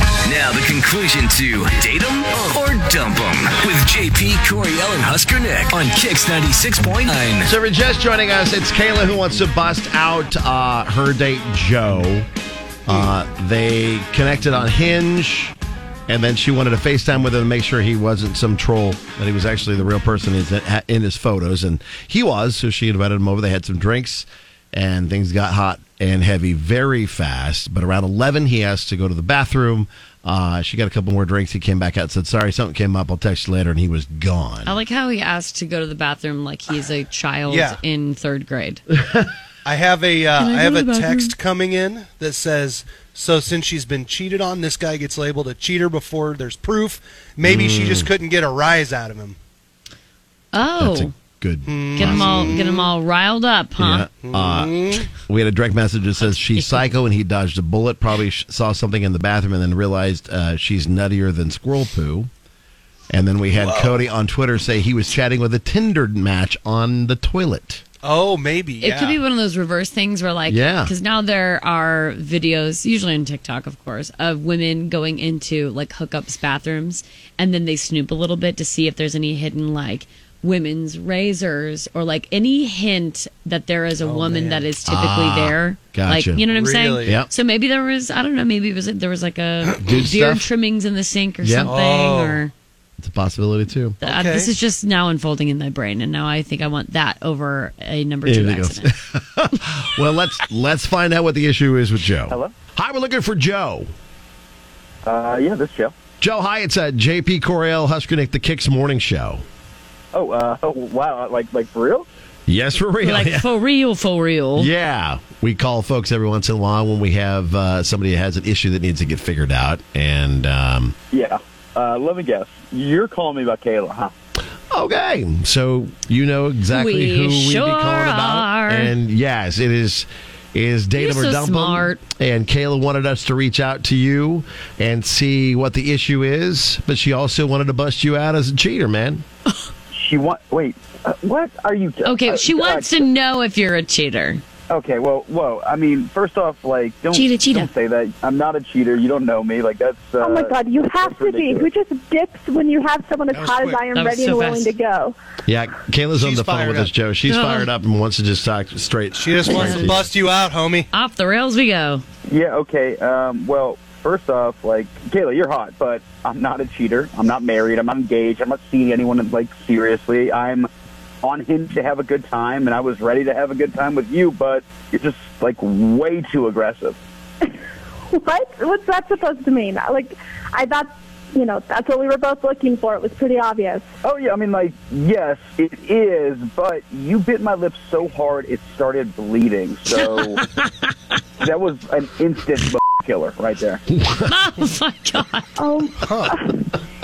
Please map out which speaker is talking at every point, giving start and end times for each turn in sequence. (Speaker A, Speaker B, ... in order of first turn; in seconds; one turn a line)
Speaker A: 0.2-7.5
Speaker B: 7.4-12.3
Speaker B: 12.9-15.6
Speaker B: 16.1-34.8
Speaker C: 34.7-38.8
Speaker D: 37.5-37.8
Speaker D: 39.6-49.4
Speaker C: 40.4-41.3
Speaker B: 47.4-48.1
Speaker C: 50.5-51.1
Speaker B: 50.8-52.6
Speaker D: 51.7-52.9
Speaker C: 52.0-54.1
Speaker B: 53.8-62.3
Speaker D: 54.3-55.1
Speaker C: 56.2-56.8
Speaker B: 63.1-67.8
Speaker D: 63.6-63.9
Speaker D: 68.0-69.2
Speaker C: 68.8-92.5
Speaker B: 70.5-70.9
Speaker D: 84.0-84.7
Speaker B: 84.8-86.4
Speaker D: 86.4-87.2
Speaker B: 87.0-87.3
Speaker B: 89.8-90.5
Speaker B: 91.4-91.7
Speaker D: 91.7-92.4
Speaker B: 93.0-94.0
Speaker C: 94.0-98.9
Speaker D: 94.0-94.5
Speaker B: 98.2-103.9
Speaker E: 102.3-102.5
Speaker E: 105.0-106.0
Speaker B: 106.2-109.4
Speaker E: 110.1-112.1
Speaker B: 112.5-113.5
Speaker C: 113.0-114.7
Speaker B: 114.6-121.0
Speaker E: 121.1-124.1
Speaker B: 124.7-139.2
Speaker C: 126.7-128.9
Speaker C: 131.0-132.0
Speaker E: 139.9-143.1
Speaker C: 142.0-144.4
Speaker E: 144.7-151.7
Speaker C: 147.1-147.7
Speaker F: 150.2-155.2
Speaker D: 153.3-153.8
Speaker C: 153.9-154.7
Speaker B: 155.5-160.1
Speaker D: 156.2-156.9
Speaker C: 157.3-157.7
Speaker D: 159.2-160.9
Speaker C: 159.5-160.0
Speaker C: 160.9-162.0
Speaker E: 162.3-170.7
Speaker E: 171.2-177.0
Speaker F: 178.1-183.9
Speaker E: 184.0-190.5
Speaker C: 190.0-190.5
Speaker E: 191.4-193.8
Speaker B: 194.0-194.3
Speaker C: 194.2-195.5
Speaker F: 195.6-196.7
Speaker D: 196.0-196.4